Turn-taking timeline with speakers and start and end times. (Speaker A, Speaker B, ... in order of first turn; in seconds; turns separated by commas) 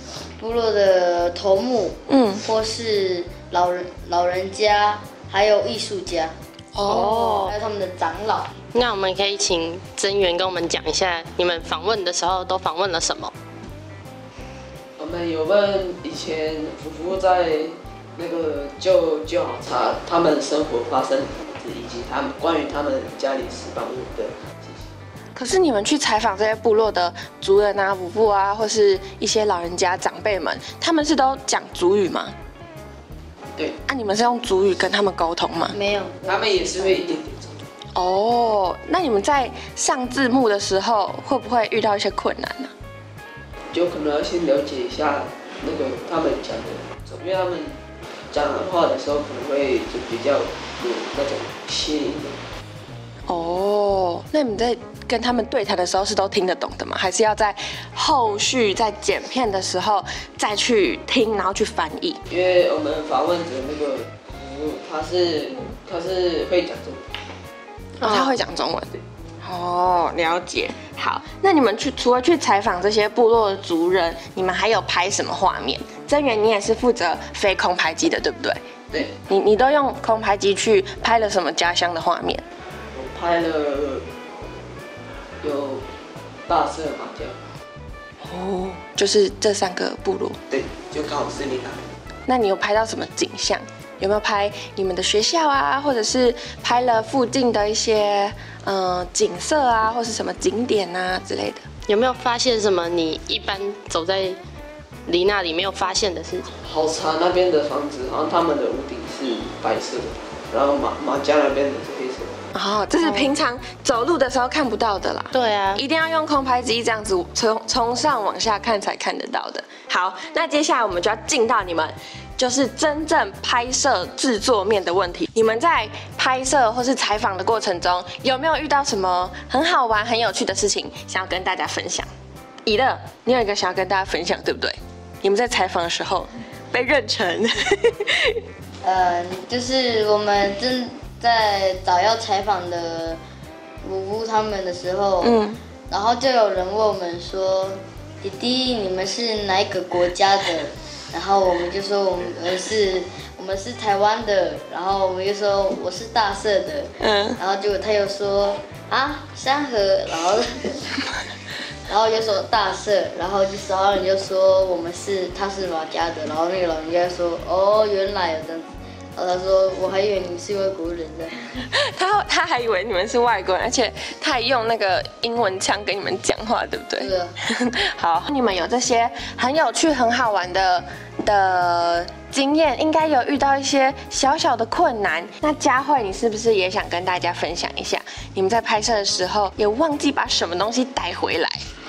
Speaker A: 0.4-6.3, Speaker B: 2.1-2.4, Speaker B: 6.7-7.5, Speaker C: 6.8-7.5, Speaker A: 7.4-8.5, Speaker C: 8.7-13.3, Speaker D: 15.0-24.9, Speaker B: 25.3-32.3, Speaker B: 33.9-35.7, Speaker A: 35.7-37.1, Speaker D: 36.2-37.7, Speaker B: 37.9-42.7, Speaker D: 43.7-47.8, Speaker D: 48.3-52.4, Speaker B: 53.3-62.2, Speaker D: 62.3-67.1, Speaker C: 68.0-68.3, Speaker B: 68.0-68.9, Speaker B: 69.4-78.6, Speaker D: 78.9-79.2, Speaker B: 79.3-82.4, Speaker D: 82.9-84.1, Speaker D: 85.4-85.8, Speaker D: 86.5-87.4, Speaker B: 88.2-90.4, Speaker D: 90.5-91.8, Speaker B: 92.3-101.6, Speaker C: 101.9-104.4, Speaker C: 105.1-106.5, Speaker D: 106.6-112.4, Speaker B: 112.5-132.1, Speaker C: 113.0-113.3, Speaker C: 115.3-115.8, Speaker B: 132.7-138.4, Speaker A: 138.8-143.2, Speaker A: 143.8-160.9, Speaker B: 145.2-145.6, Speaker B: 157.0-157.4, Speaker A: 161.9-168.6, Speaker A: 169.2-171.3, Speaker B: 171.7-191.6, Speaker A: 177.0-177.3